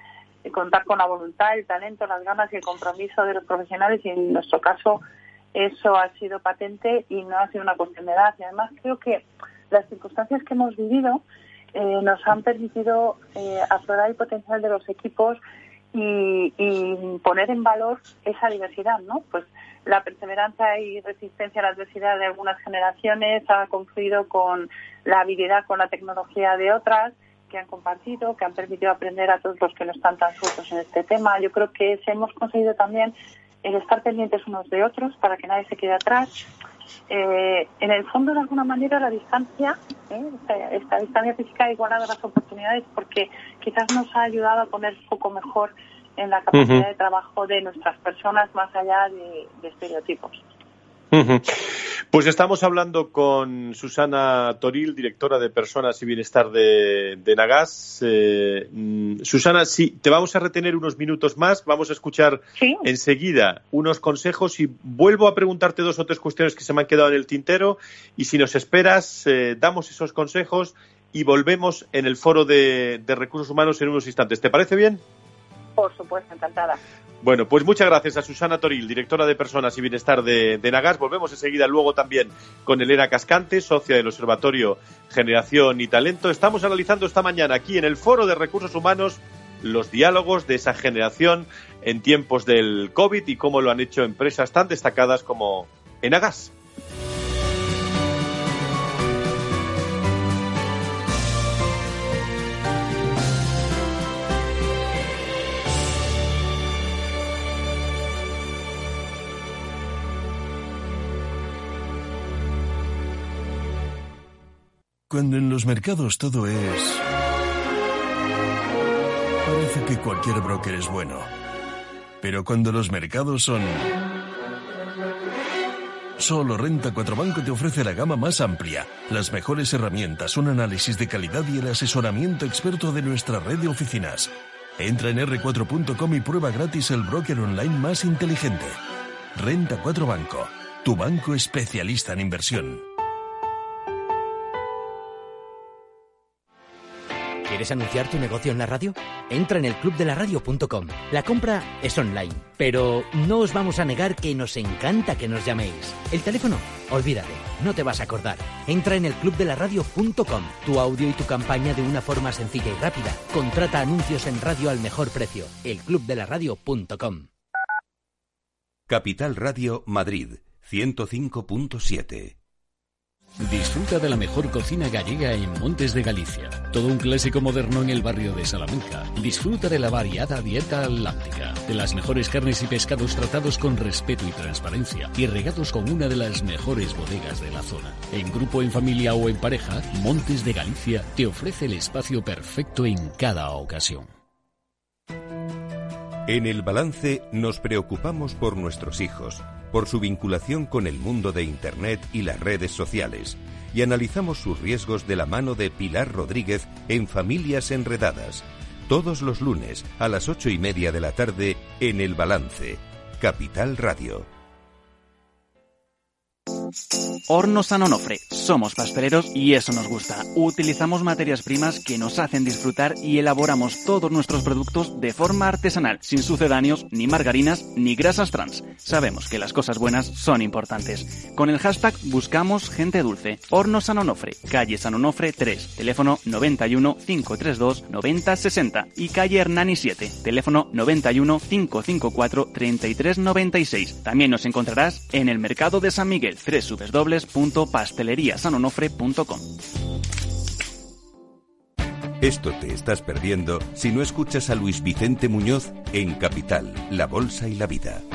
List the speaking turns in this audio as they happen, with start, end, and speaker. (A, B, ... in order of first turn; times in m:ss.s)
0:00.4-0:05.0 A
0:05.5-0:15.4 A
0:15.9-0:36.3 A
0:37.1-0:50.4 A
0:46.5-0:46.8 B
0:51.1-1:15.0 B
1:02.6-1:02.8 A
1:15.8-1:16.8 A
1:17.2-1:36.5 B
1:55.1-1:57.0 C
1:59.4-2:01.3 C
2:02.2-2:03.9 C
2:06.2-2:18.8 C
2:19.4-2:22.8 C
2:27.4-2:47.3 D
2:48.9-2:52.4 E
2:53.4-3:14.1 F
3:16.3-3:34.3 E
3:37.3-4:09.5 G
4:12.2-4:18.0 E